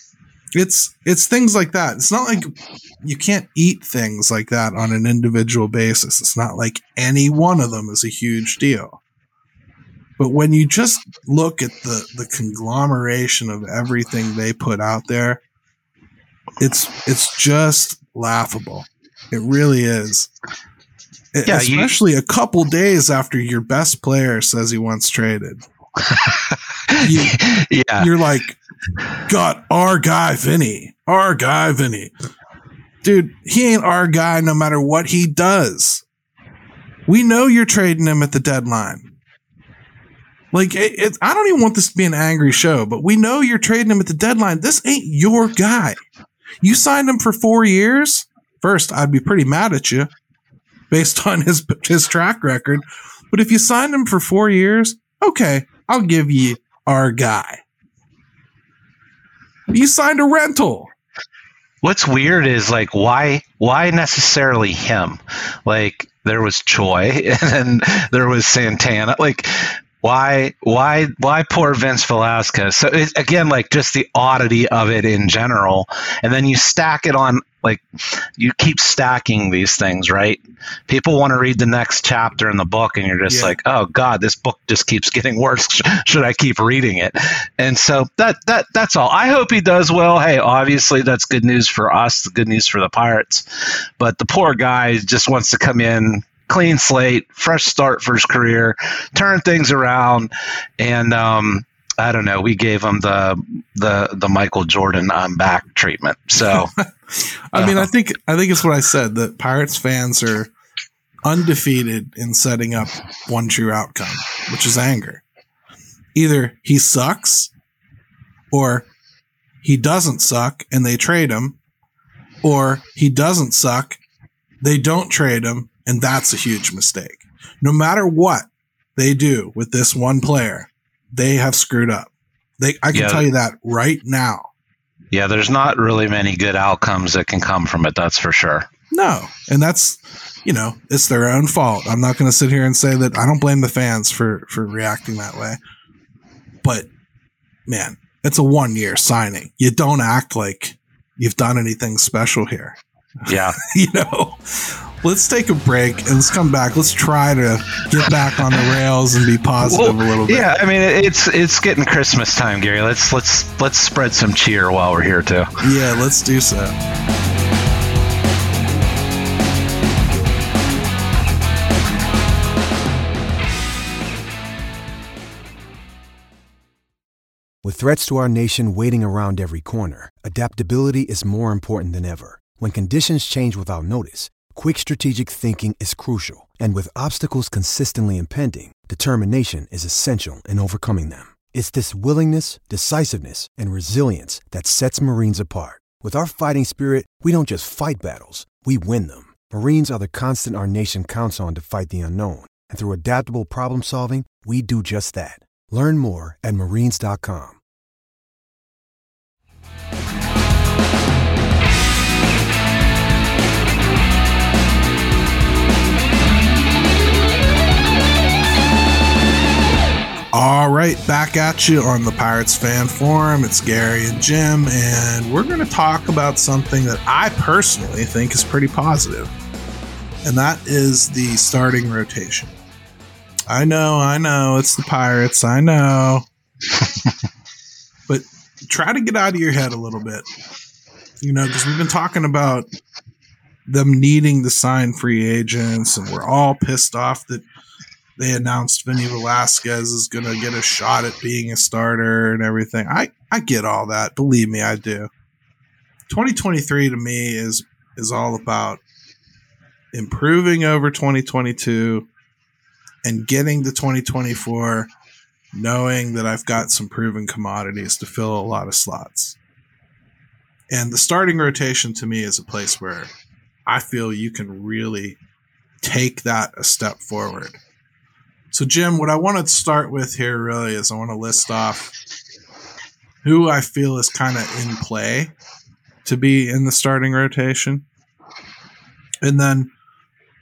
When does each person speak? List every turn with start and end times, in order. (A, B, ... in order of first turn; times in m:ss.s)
0:00.6-0:09.0 A
0:10.2-0:15.4 A
0:16.6-0:20.3 A
0:21.3-0:25.6 A
0:21.5-0:21.9 B
0:26.0-0:28.1 B
0:27.0-0:28.6 A
0:29.3-0:32.1 A
0:33.0-0:36.0 A
0:37.1-0:39.1 A
0:40.5-0:46.0 A
0:46.6-0:50.1 A
0:50.9-0:57.6 A
0:59.7-1:00.9 A
1:01.8-1:46.7 B
1:23.3-1:23.6 A
1:46.4-1:50.5 A
1:47.6-1:47.9 B
1:51.2-1:55.2 A
1:56.2-1:57.5 A
1:58.5-1:58.9 A
1:59.6-2:01.6 A
2:02.4-2:04.0 A
2:04.6-2:14.5 A
2:12.9-2:13.3 B
2:15.1-2:18.7 B
2:18.9-2:25.6 A
2:26.6-2:26.9 A
2:27.7-2:40.5 A
2:33.3-2:33.6 B
2:39.6-2:45.5 B
2:45.6-2:46.8 A
2:57.6-3:27.6 C
3:40.3-3:49.3 A
3:50.2-3:52.6 A
3:53.5-3:56.3 A
3:58.1-4:00.3 A
4:01.2-4:02.7 A
4:03.7-4:07.4 A
4:08.2-4:15.1 A
4:16.1-4:18.8 A
4:19.9-4:22.1 A
4:23.0-4:24.9 A
4:25.5-4:29.4 A
4:30.7-4:33.1 A
4:33.7-4:35.2 A
4:35.8-4:37.6 A
4:38.5-4:41.9 A
4:43.2-4:45.3 A
4:46.0-4:47.8 A
4:49.2-4:49.7 A